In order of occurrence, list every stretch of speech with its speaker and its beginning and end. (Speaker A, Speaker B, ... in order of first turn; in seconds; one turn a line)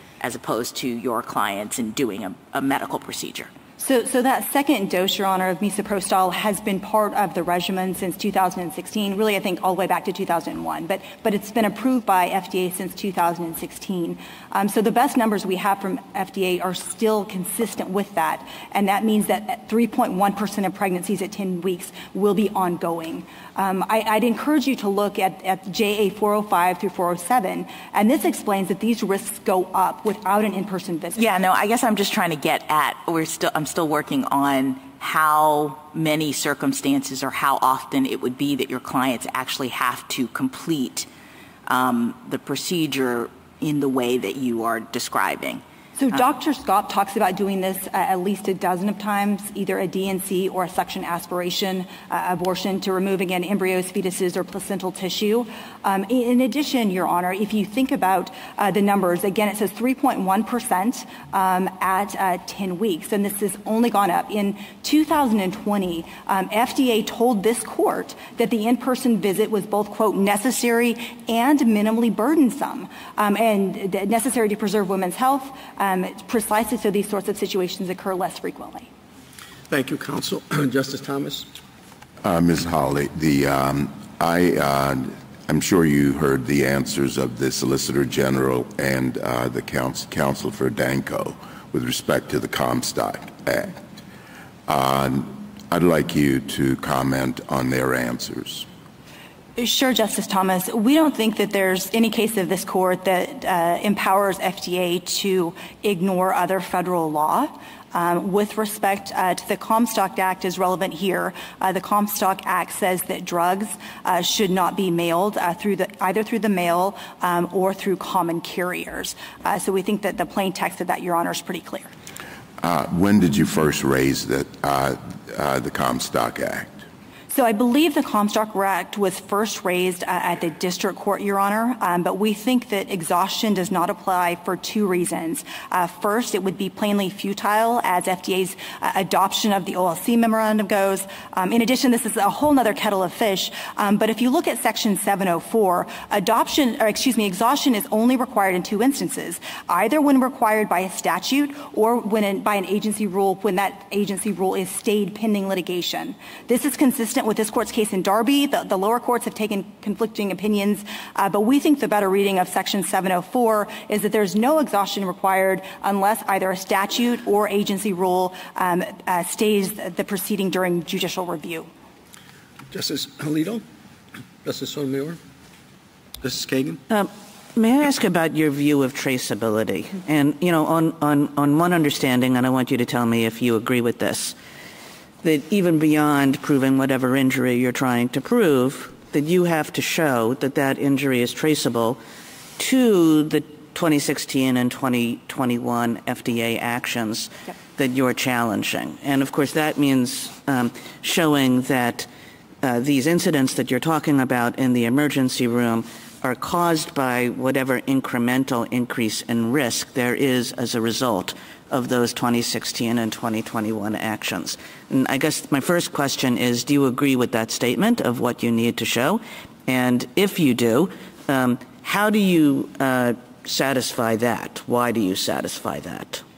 Speaker A: 0.2-3.5
Speaker B: 3.8-31.2
Speaker A: 31.1-41.1
Speaker A: 41.7-45.6
Speaker B: 46.0-78.9
Speaker C: 79.7-81.5
Speaker D: 82.2-93.8
Speaker D: 94.7-98.7
Speaker B: 99.6-121.9
Speaker D: 122.6-126.8
Speaker B: 127.3-171.7
Speaker C: 172.7-173.6
Speaker C: 174.4-175.2
Speaker C: 176.2-176.8
Speaker E: 176.9-184.3
Speaker E: 185.2-192.0
Speaker E: 192.6-202.1
Speaker E: 202.6-226.2